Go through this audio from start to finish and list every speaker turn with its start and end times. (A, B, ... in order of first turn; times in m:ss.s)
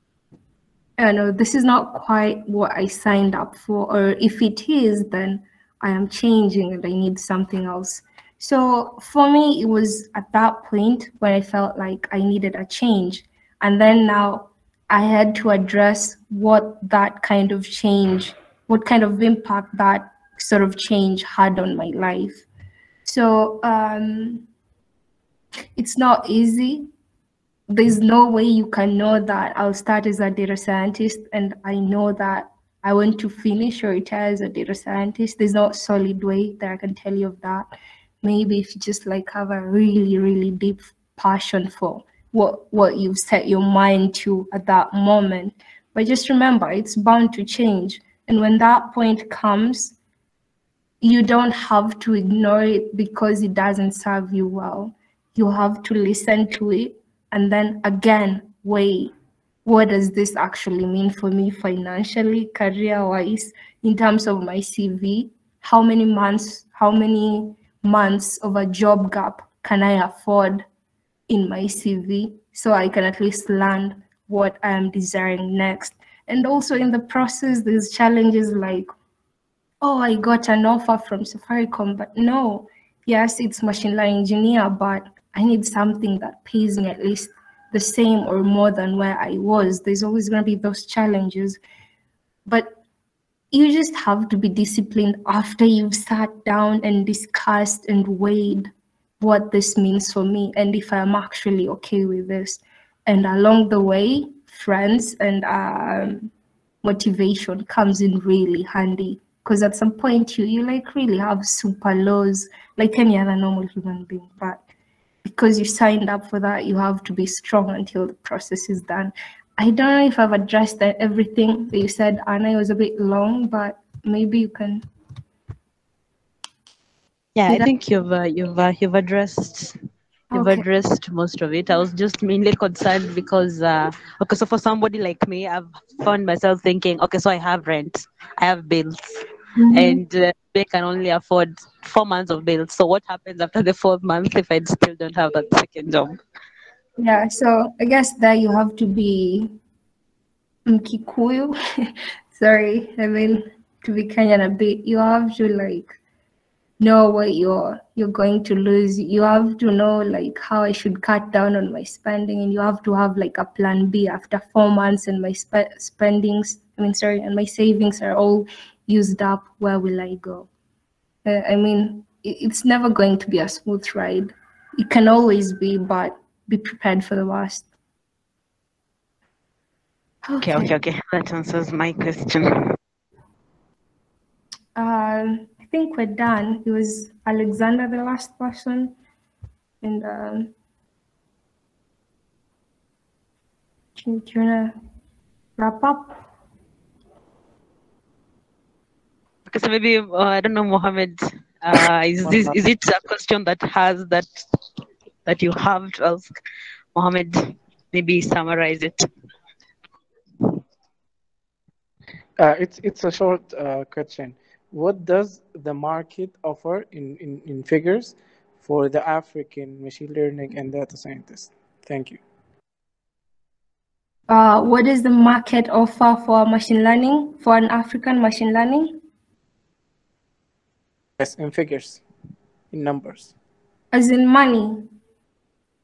0:01.0-0:22.5 A
0:23.0-0:24.4 A
0:25.8-0:26.9 A
0:27.7-0:37.7 A
0:38.2-0:50.0 A
0:51.0-0:59.1 A
0:59.6-1:10.6 A
1:11.3-1:18.9 A
1:19.8-1:31.6 A
1:32.5-1:32.8 A
1:33.5-1:46.3 A
1:46.8-1:54.6 A
1:55.2-2:04.9 A
2:07.4-2:09.8 B
2:10.3-2:10.6 A
2:10.3-2:26.2 B
2:19.6-2:20.0 A
2:27.0-2:29.6 A
2:30.7-2:36.0 A
2:36.8-2:50.5 A
2:51.2-2:57.7 A
3:00.2-3:00.7 A
3:00.4-3:02.6 B
3:04.8-3:09.0 A
3:09.8-3:10.5 A
3:14.0-3:14.7 A
3:15.6-3:16.2 A
3:19.5-3:24.3 B
3:25.3-3:26.3 B
3:27.0-3:29.0 B
3:32.4-3:42.2 C
3:44.3-3:49.0 A
3:51.2-3:52.0 C
3:52.7-3:53.3 C
3:53.9-3:54.9 A